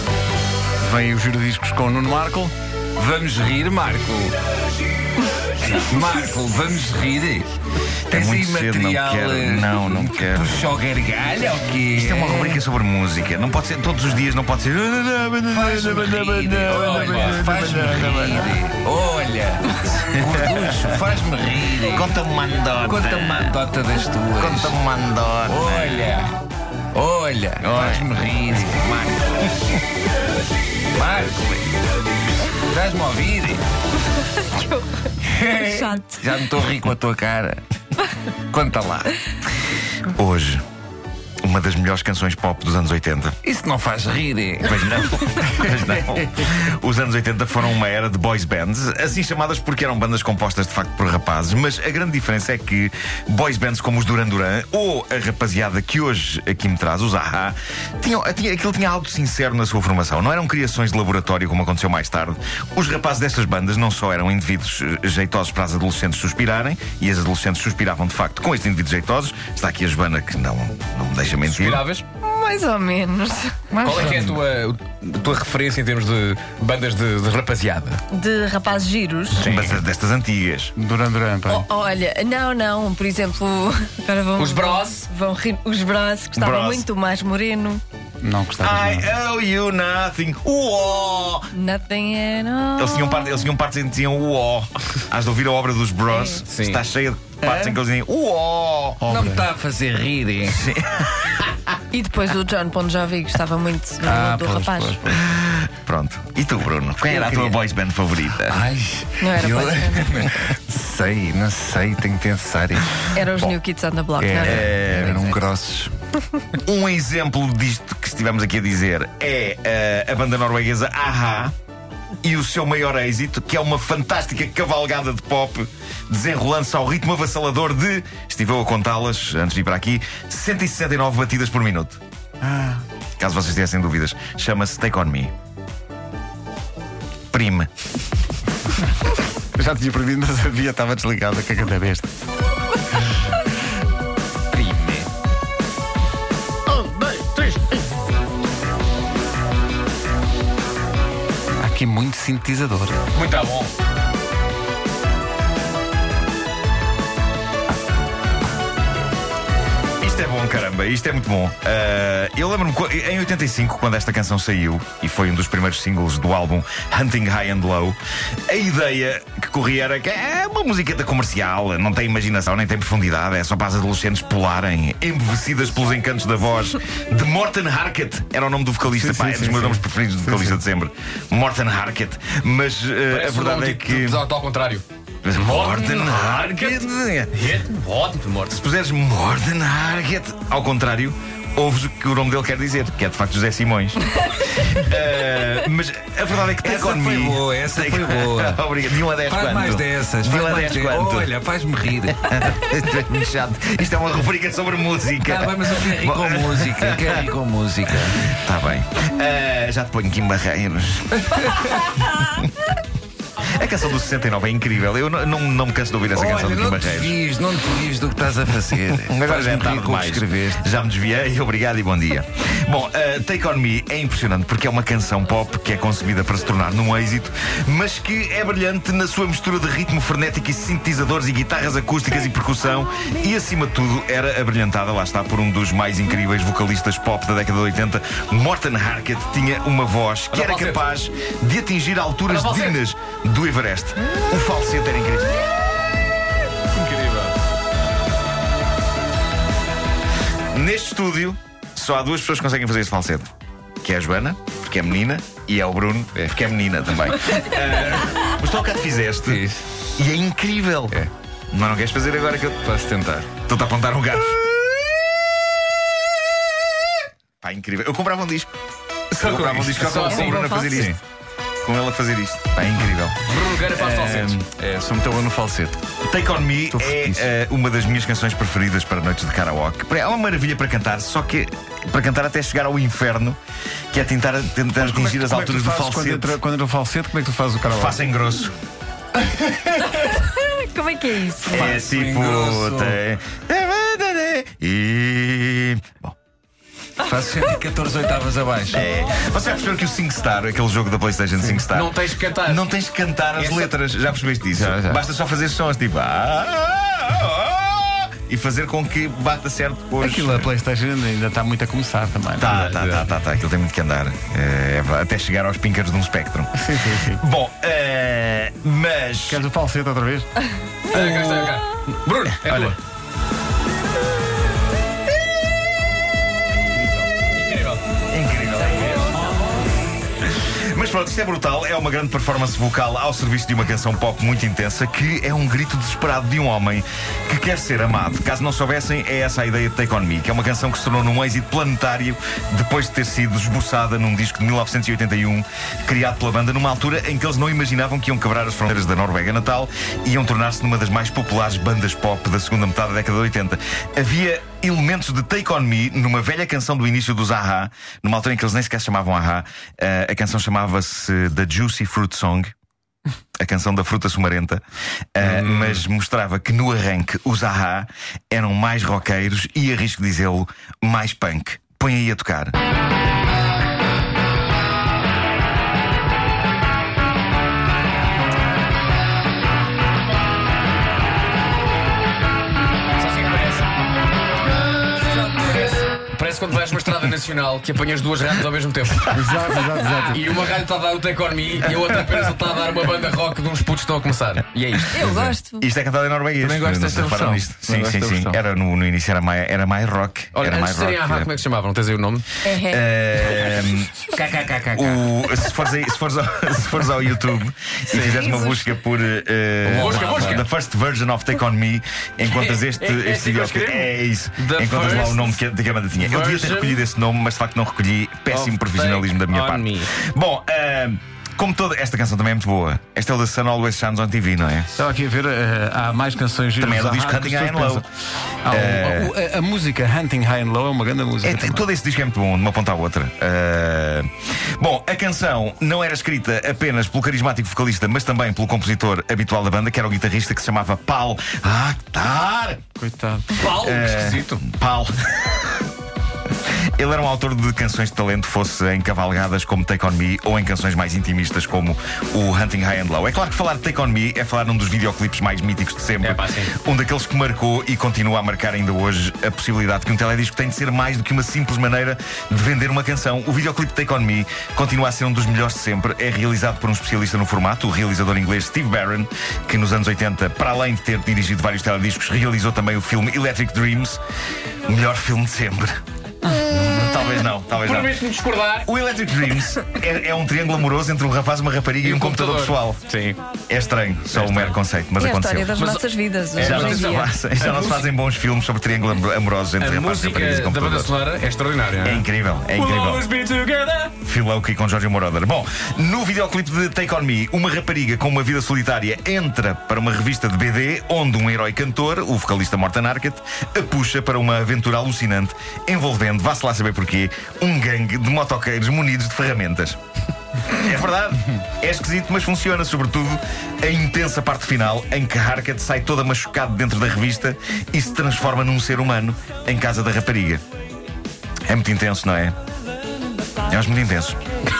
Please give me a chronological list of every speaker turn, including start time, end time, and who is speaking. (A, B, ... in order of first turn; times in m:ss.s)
0:00.8-0:02.5 A
0:03.0-0:04.4 B
0:05.6-0:07.5 B
0:08.1-0:10.7 C
0:08.1-0:12.6 B
0:11.9-0:18.6 C
0:15.5-0:22.1 B
0:16.8-0:17.4 D
0:20.0-0:21.0 C
0:21.8-0:23.7 C
0:22.8-0:24.7 B
0:24.3-0:26.2 C
0:25.4-0:26.3 B
0:26.9-0:29.2 B
0:27.6-0:28.3 C
0:30.9-0:31.7 B
0:32.4-0:33.6 B
0:34.2-0:36.3 E
0:35.2-0:37.6 B
0:38.4-0:39.2 B
0:40.0-0:40.6 C
0:41.4-0:43.4 C
0:43.4-0:44.9 B
0:44.6-1:11.8 C
1:11.4-1:12.0 D
1:12.2-1:13.7 E
1:13.7-1:18.0 D
1:14.0-1:14.3 B
1:18.1-1:19.4 E
1:19.3-1:19.8 D
1:19.4-1:20.7 C
1:20.8-1:21.7 A
1:21.5-1:27.8 E
1:24.4-1:25.1 D
1:26.3-1:26.9 C
1:28.2-1:29.1 A
1:28.6-1:31.5 C
1:31.5-1:33.5 E
1:32.8-1:39.0 C
1:36.1-1:36.4 E
1:36.5-1:36.8 D
1:39.0-1:39.4 A
1:39.1-1:40.6 B
1:40.5-1:41.5 C
1:41.9-1:45.0 E
1:44.0-1:45.2 A
1:45.0-1:48.6 C
1:47.1-1:47.6 B
1:48.5-1:53.3 B
1:49.2-1:50.5 E
1:53.1-1:54.8 E
1:54.2-1:55.9 B
1:54.4-1:55.2 C
1:56.5-2:01.5 C
2:02.2-2:12.0 C
2:12.4-2:12.8 A
2:13.2-2:15.3 C
2:17.3-2:17.7 C
2:19.5-2:22.1 A
2:24.5-2:25.0 D
2:26.7-2:27.7 D
2:31.6-2:33.0 A
2:33.1-2:33.7 D
2:40.0-2:48.0 C
2:48.5-3:04.2 C
2:58.8-3:00.6 A
3:03.1-3:08.6 D
3:05.2-3:07.3 C
3:08.5-3:21.3 C
3:16.6-3:22.5 B
3:22.1-3:27.3 C
3:25.2-3:28.3 B
3:28.0-3:32.8 C
3:33.4-3:37.2 C
3:36.1-3:40.6 B
3:39.0-4:05.5 C
4:00.3-4:00.8 D
4:02.3-4:02.8 D
4:10.5-4:13.3 C
4:13.8-4:21.0 C
4:19.2-4:19.6 B
4:21.5-4:22.6 C
4:22.6-4:23.3 B
4:23.4-4:24.5 C
4:27.4-4:28.5 C
4:29.1-4:31.0 C
4:29.2-4:30.8 D
4:29.3-4:29.6 B
4:30.0-4:30.9 E
4:31.6-4:34.5 C
4:33.2-4:34.4 D
4:34.6-4:35.7 B
4:34.8-4:35.7 A
4:36.0-4:43.4 C
4:43.9-4:46.4 C
4:44.8-4:48.0 A
4:47.6-4:48.5 C
4:49.3-4:49.8 B
4:50.0-4:51.6 E
4:51.4-4:53.0 B
4:51.5-4:56.1 C
4:57.0-4:58.9 B
4:58.7-5:10.5 C
5:01.7-5:02.7 D
5:04.5-5:05.0 B
5:10.0-5:12.7 A
5:12.4-5:19.4 C
5:12.5-5:13.2 D
5:16.6-5:17.2 A
5:19.3-5:20.3 A
5:20.9-5:21.6 C
5:20.9-5:22.8 D
5:22.4-5:22.8 C
5:27.2-5:27.8 D
5:28.1-5:29.3 C
5:30.4-6:02.5 C
6:03.4-6:04.6 C
6:05.1-6:12.6 C
6:05.2-6:05.8 D
6:22.9-6:23.7 D
6:25.0-6:35.3 D
6:29.1-6:30.2 A
6:34.9-6:35.7 E
6:35.0-6:41.4 C
6:36.4-6:38.4 B
6:40.3-6:42.2 D
6:42.4-6:42.8 E
6:42.6-6:44.1 C
6:44.1-6:45.0 B
6:44.7-7:04.7 C
6:48.0-6:48.5 E
6:49.7-6:50.3 B
6:49.7-6:50.4 D
6:52.2-6:55.4 D
6:56.0-6:56.8 D
6:58.3-6:59.9 D
7:04.8-7:07.8 A
7:06.6-7:07.8 C
7:08.4-7:11.6 A
7:08.5-7:09.1 C
7:11.2-7:22.6 C
7:22.8-7:23.4 A
7:23.3-7:24.4 D
7:23.5-7:25.6 C
7:26.7-7:54.0 C
7:36.0-7:36.5 D
7:54.6-7:58.0 C
7:57.6-7:58.7 D
7:58.6-8:02.8 C
8:01.8-8:03.2 D
8:03.5-8:05.6 C
8:04.1-8:04.6 D
8:05.0-8:07.1 E
8:05.6-8:07.9 D
8:06.4-8:10.9 C
8:09.6-8:13.9 D
8:11.8-8:13.1 C
8:14.0-8:29.8 C
8:30.5-8:40.4 C
8:41.4-8:42.4 C
8:43.5-8:44.2 C